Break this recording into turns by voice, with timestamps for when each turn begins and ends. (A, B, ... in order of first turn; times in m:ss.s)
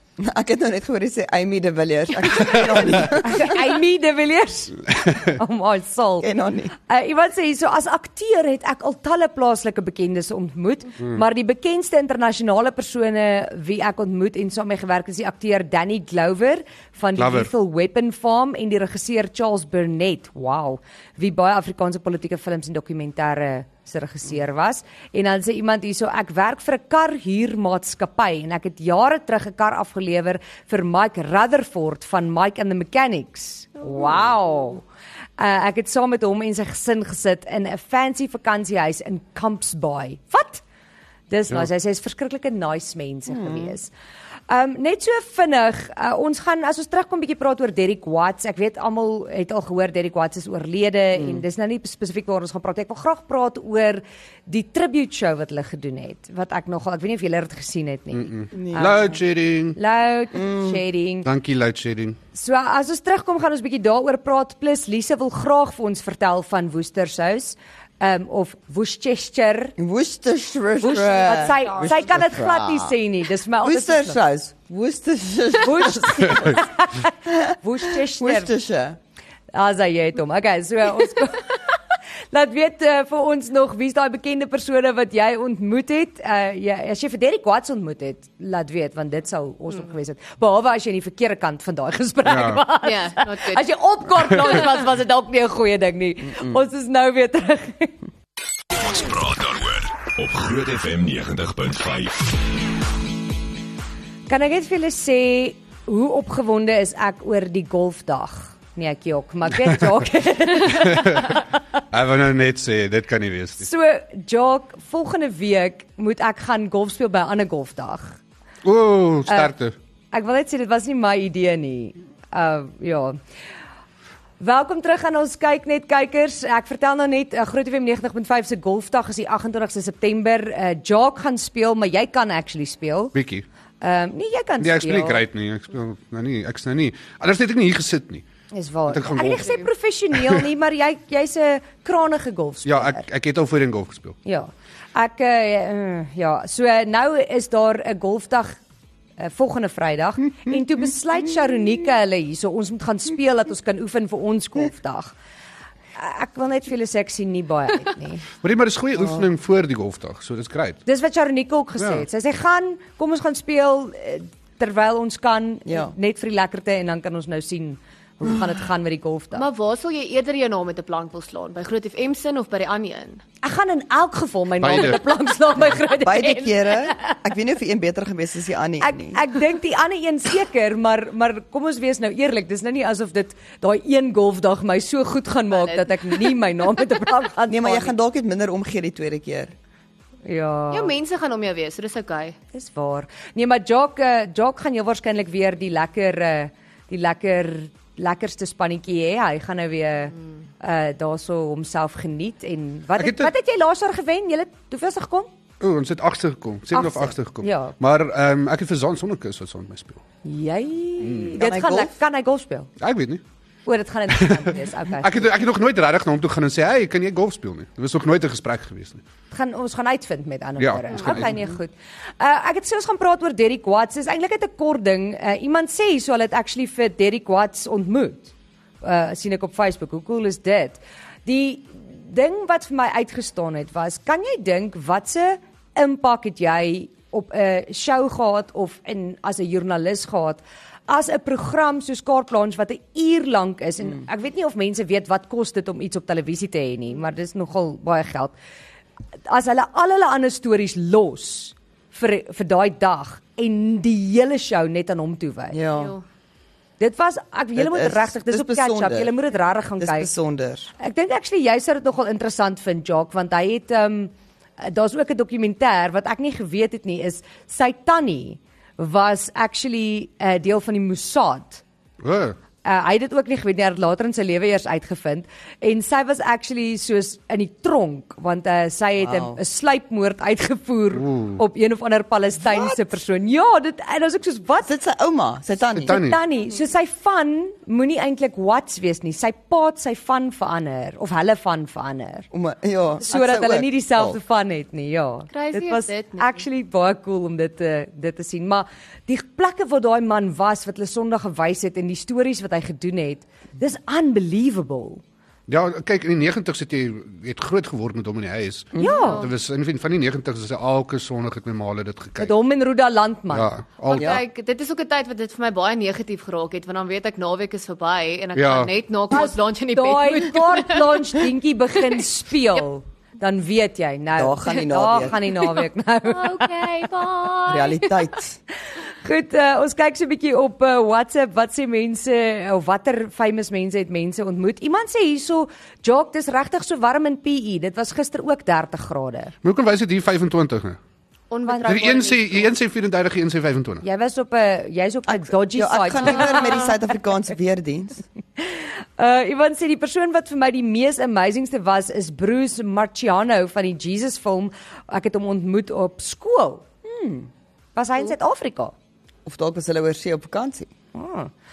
0:00.2-0:03.6 A
0:02.6-0:34.8 B
0:04.9-0:05.3 C
0:06.2-0:06.7 A
0:17.2-0:17.5 C
0:35.4-0:40.6 B
0:41.3-0:43.9 B
0:43.3-0:43.7 A
0:44.5-0:59.1 B
0:58.1-0:59.8 C
0:58.5-0:59.2 A
0:59.7-1:01.3 B
1:00.3-1:00.8 A
1:01.2-1:02.2 C
1:02.3-1:09.7 B
1:09.8-1:12.9 A
1:10.8-1:14.2 B
1:11.0-1:12.0 D
1:13.6-1:16.7 A
1:15.6-1:18.5 B
1:17.2-1:19.0 A
1:19.5-1:21.8 B
1:22.3-1:38.0 B
1:32.2-1:32.6 C
1:32.8-1:33.6 D
1:36.2-1:36.6 A
1:38.7-1:42.4 E
1:44.3-1:51.4 B
1:50.6-1:53.7 C
1:53.6-1:58.2 B
1:58.6-1:59.7 C
1:59.3-1:59.5 B
2:00.1-2:03.2 B
2:04.4-2:13.1 B
2:13.1-2:13.4 C
2:13.8-2:15.2 B
2:14.6-2:18.2 C
2:18.5-2:23.0 B
2:18.9-2:19.6 C
2:20.1-2:20.5 C
2:22.6-2:24.2 C
2:24.2-2:28.6 B
2:29.2-2:35.1 B
2:36.0-2:38.2 B
2:38.4-2:40.8 C
2:39.0-2:39.2 A
2:40.8-2:49.4 B
2:41.8-2:42.0 C
2:45.7-2:45.9 A
2:49.3-2:53.2 D
2:53.4-2:57.2 B
2:54.6-2:55.0 C
2:56.0-2:59.2 A
2:58.8-3:07.9 B
3:05.5-3:06.3 D
3:07.5-3:09.5 A
3:10.2-3:10.9 B
3:10.7-3:12.4 D
3:12.5-3:25.3 B
3:23.0-3:23.3 C
3:25.6-3:30.0 C
3:26.7-3:27.7 B
3:30.2-3:32.7 B
3:31.0-3:31.4 C
3:31.3-3:32.0 A
3:32.8-3:33.2 C
3:33.6-3:35.3 B
3:34.9-3:39.0 C
3:39.3-4:08.3 B
3:40.6-3:41.4 C
4:09.3-4:15.6 B
4:15.5-4:15.9 A
4:15.7-4:16.0 D
4:16.8-4:20.1 B
4:17.6-4:19.1 A
4:19.8-4:20.7 A
4:20.8-4:31.6 B
4:32.0-4:32.4 C
4:32.6-4:44.7 B
4:39.0-4:39.4 A
4:41.0-4:41.4 C
4:42.4-4:42.8 A
4:44.6-4:45.9 A
4:45.7-4:46.2 C
4:45.8-4:52.3 B
4:52.3-4:54.2 A
4:53.1-5:05.0 B
4:55.3-4:56.4 D
5:05.5-5:12.3 C
5:08.8-5:09.0 A
5:08.8-5:09.2 B
5:08.9-5:09.3 D
5:12.2-5:13.5 B
5:13.3-5:14.2 C
5:13.8-5:21.2 D
5:13.9-5:14.2 A
5:18.4-5:18.7 C
5:19.1-5:26.9 B
5:24.2-5:25.2 A
5:26.0-5:28.1 D
5:27.4-5:28.4 A
5:29.0-5:39.3 B
5:39.4-5:40.8 C
5:41.3-5:42.5 D
5:41.4-5:41.8 B
5:41.7-5:43.8 C
5:43.8-5:46.6 B
5:45.1-5:48.0 A
5:48.4-5:56.7 B
5:56.8-5:57.3 A
5:57.7-5:58.7 B
5:59.2-6:00.7 A
6:00.9-6:01.3 B